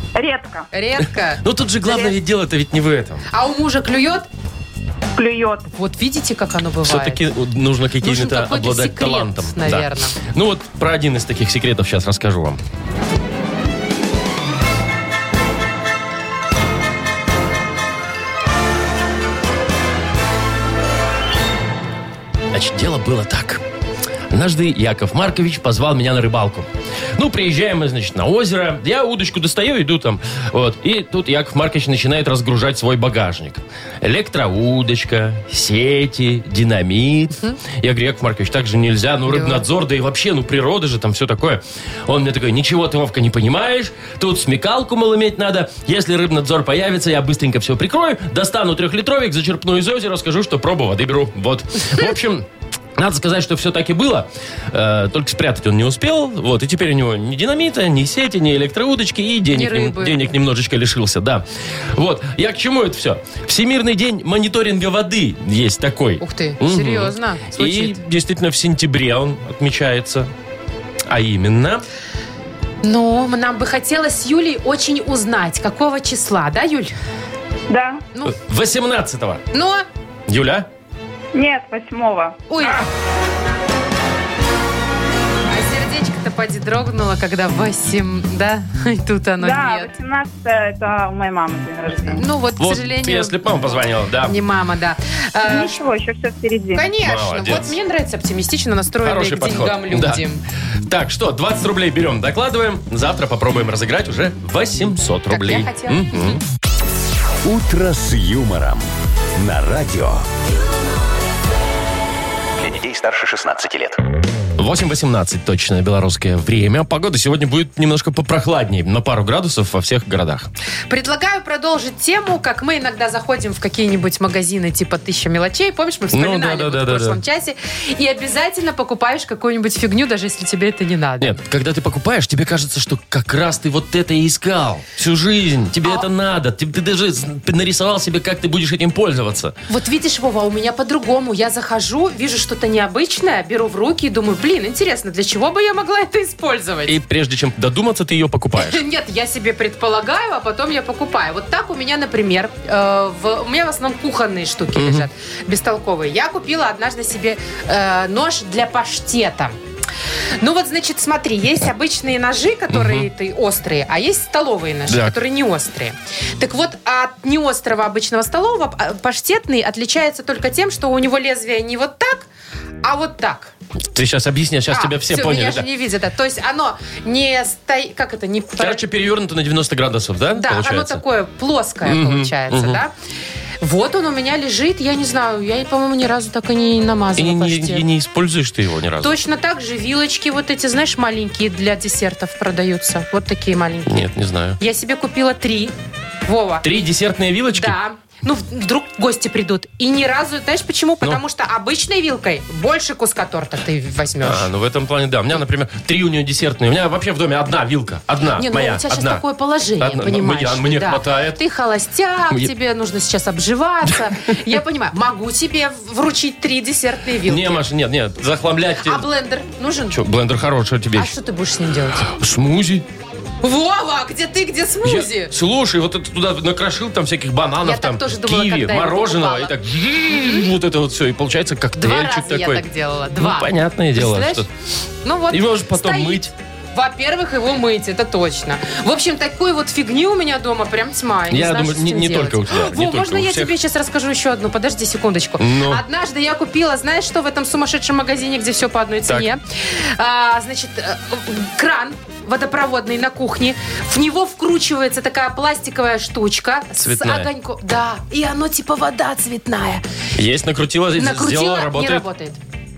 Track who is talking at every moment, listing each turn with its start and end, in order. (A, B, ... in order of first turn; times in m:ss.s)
0:00.2-0:00.7 A
0:00.7-0:02.0 B
0:01.4-0:03.3 C
0:03.3-0:04.3 B
0:05.2-0:05.7 A
0:05.7-0:07.2 B
0:06.8-0:12.6 C
0:08.0-0:10.2 B
0:22.5-0:23.6 C
0:24.3-1:10.3 C
0:39.3-0:39.6 B
0:59.5-1:00.3 B
1:06.2-1:08.0 B
1:11.1-1:11.8 C
1:12.8-1:16.9 B
1:17.7-1:18.1 A
1:18.3-1:19.5 C
1:19.5-1:19.8 B
1:20.3-1:20.7 C
1:21.3-1:22.4 A
1:22.5-1:22.9 B
1:25.5-1:29.9 B
1:29.4-1:32.2 A
1:32.1-1:33.7 B
1:32.6-1:34.4 C
1:34.2-1:35.8 B
1:35.4-1:36.9 A
1:36.7-1:40.4 B
1:37.0-1:37.8 C
1:39.0-1:40.2 C
1:40.8-1:46.4 C
1:45.3-1:46.4 B
1:47.4-1:50.3 D
1:52.6-1:53.9 D
1:54.6-2:00.5 C
2:00.9-2:11.4 B
2:06.1-2:07.2 C
2:11.2-2:19.6 C
2:19.7-2:27.0 B
2:26.9-2:28.8 C
2:28.6-2:39.6 B
2:34.8-2:35.1 C
2:40.4-2:52.3 B
2:42.7-2:43.1 C
2:44.9-2:45.2 C
2:52.8-2:53.5 B
2:53.9-2:55.7 C
2:54.7-2:58.8 B
2:58.6-3:01.0 C
3:00.3-3:02.9 B
3:01.8-3:02.8 C
3:03.6-3:07.8 B
3:07.2-3:09.2 C
3:09.0-3:14.0 B
3:13.9-3:14.6 C
3:14.6-3:15.7 B
3:16.3-3:16.6 B
3:16.6-3:17.8 C
3:17.5-3:24.5 B
3:24.2-3:29.2 C
3:28.3-3:37.6 B
3:29.8-3:31.4 C
3:37.3-3:39.1 C
3:38.8-3:40.0 B
3:39.9-3:41.1 C
3:41.0-3:42.1 B
3:42.0-3:42.9 C
3:43.4-3:45.3 B
3:44.8-3:52.6 C
3:47.6-3:50.5 B
3:51.8-3:54.4 B
3:53.2-3:54.5 C
3:55.0-4:19.8 B
3:55.3-3:56.3 C
4:01.3-4:03.5 C
4:05.4-4:05.8 C
4:16.8-4:17.3 C
4:20.2-4:22.0 C
4:21.0-4:22.4 B